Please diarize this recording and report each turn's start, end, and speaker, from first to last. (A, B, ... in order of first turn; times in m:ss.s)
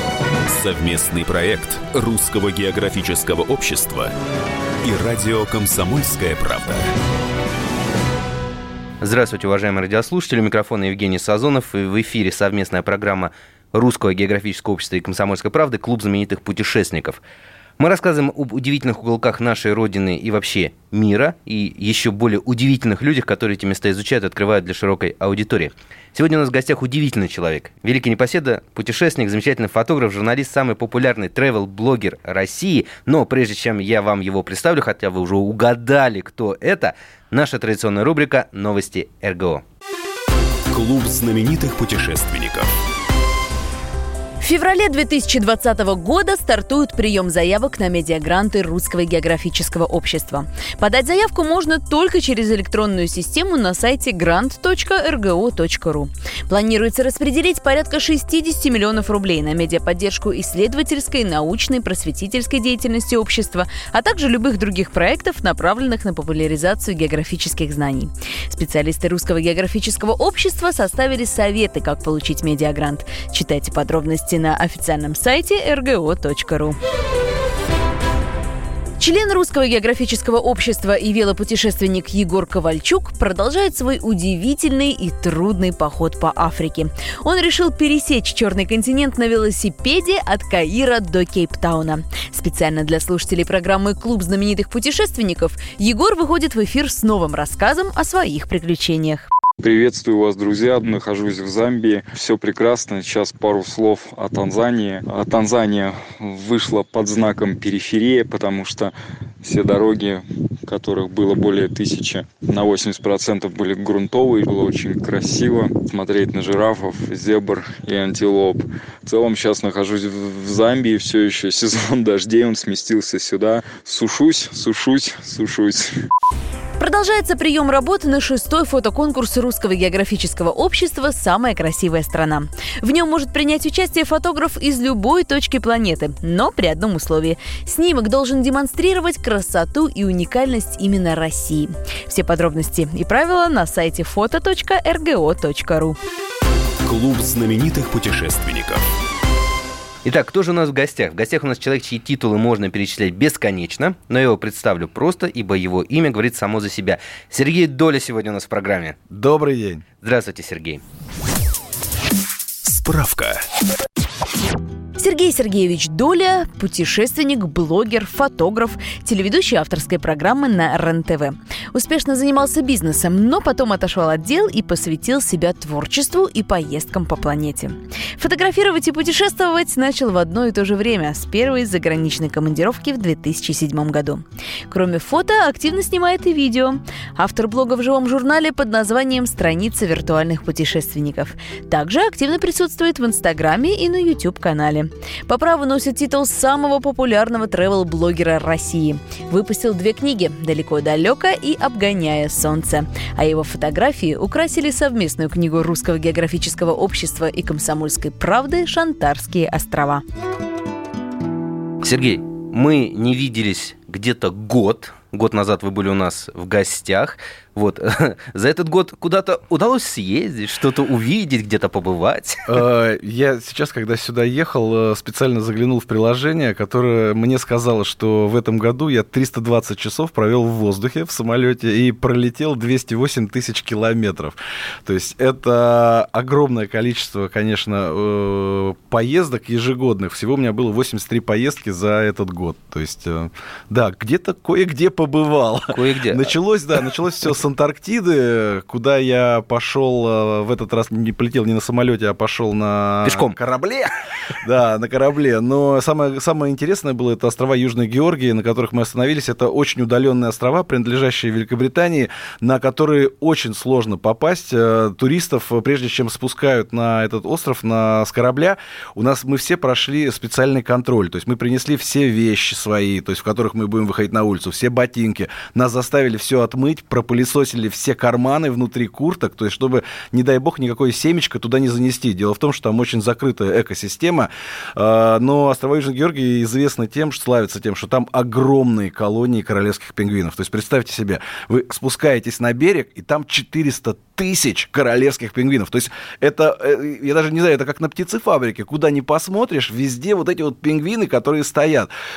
0:00.5-0:04.1 A
0:04.8-0:06.9 A
0:09.0-0:17.2 B
0:17.8-0:39.6 B
0:40.7-0:42.7 A
0:44.4-1:16.8 C
1:19.0-1:39.3 C
1:39.6-2:05.9 D
2:06.8-2:26.0 C
2:26.8-2:28.8 A
2:30.0-2:39.0 B
2:39.1-2:39.8 E
2:40.0-2:40.8 B
2:42.7-2:43.4 A
2:45.0-3:30.0 C
3:31.8-3:42.4 B
3:42.5-4:13.9 E
4:05.7-4:06.4 B
4:13.0-4:13.4 B
4:14.4-5:01.9 E